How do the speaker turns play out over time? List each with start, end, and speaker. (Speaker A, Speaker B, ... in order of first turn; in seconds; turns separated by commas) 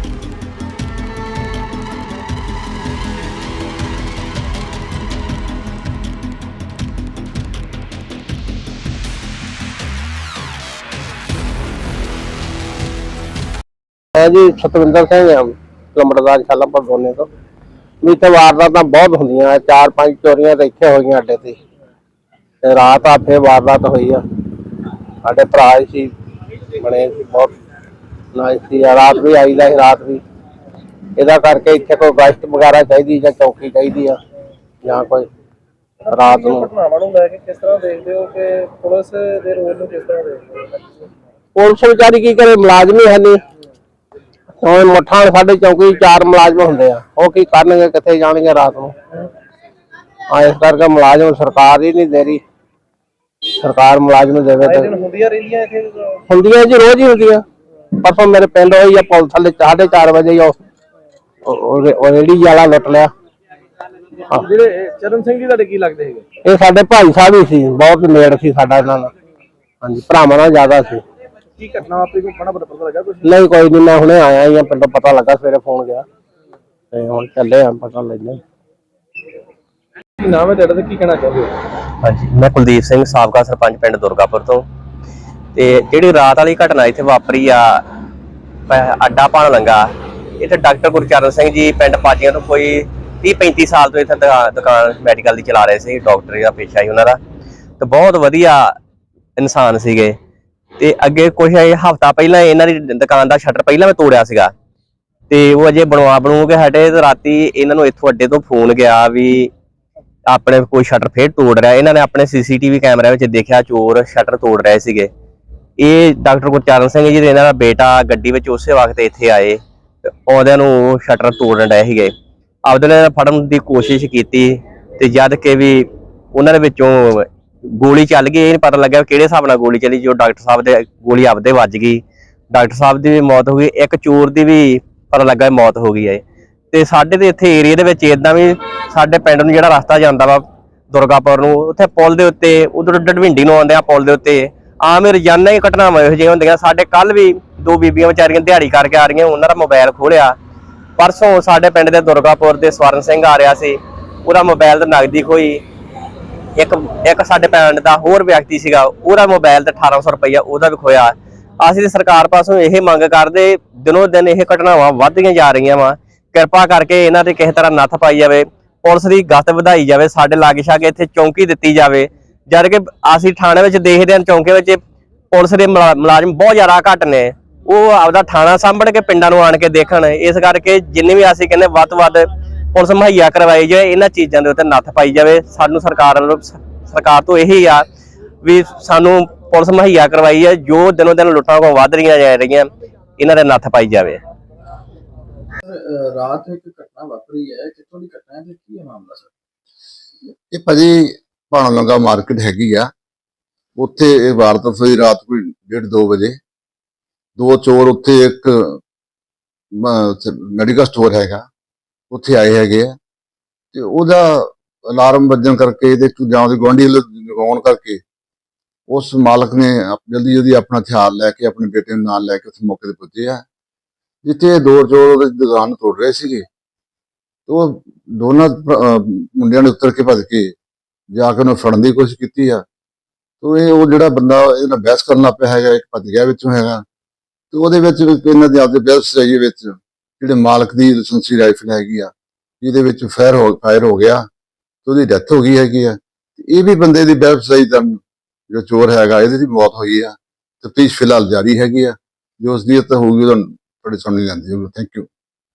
Speaker A: 14.1-17.3, Speaker A: 18.0-21.6, Speaker A: 22.6-24.2, Speaker A: 25.2-26.1, Speaker A: 26.8-27.5, Speaker A: 28.3-30.2, Speaker A: 31.2-34.2, Speaker A: 34.8-35.3, Speaker B: 36.1-41.0, Speaker A: 36.1-36.7, Speaker A: 41.5-43.4, Speaker A: 44.6-48.9, Speaker A: 50.3-52.4, Speaker A: 53.6-54.9, Speaker B: 54.6-56.1, Speaker A: 56.3-57.4, Speaker A: 58.0-60.6, Speaker A: 61.4-63.1, Speaker B: 64.4-66.2, Speaker A: 66.4-69.1, Speaker A: 69.8-71.0, Speaker B: 71.6-73.3, Speaker A: 73.2-76.0, Speaker A: 76.9-78.4, Speaker B: 80.2-81.6, Speaker C: 82.0-84.6, Speaker C: 85.5-87.8, Speaker C: 88.7-89.8, Speaker C: 90.4-97.2, Speaker C: 97.8-98.7, Speaker C: 99.4-100.1, Speaker C: 100.8-104.5, Speaker C: 105.3-109.5, Speaker C: 110.3-115.1, Speaker C: 115.8-122.1, Speaker C: 122.7-136.2, Speaker C: 136.7-150.3, Speaker C: 151.0-155.6, Speaker C: 156.6-174.8, Speaker C: 175.3-187.8, Speaker C: 188.4-194.2, Speaker D: 195.6-199.3, Speaker E: 200.5-202.9, Speaker E: 203.8-206.4, Speaker E: 207.4-208.8, Speaker E: 209.7-211.4, Speaker E: 212.1-212.9, Speaker E: 213.7-218.0, Speaker E: 218.9-223.4, Speaker E: 224.2-226.4, Speaker E: 227.5-230.5, Speaker E: 231.1-232.6, Speaker E: 233.4-236.8, Speaker E: 237.5-244.3, Speaker E: 244.8-255.1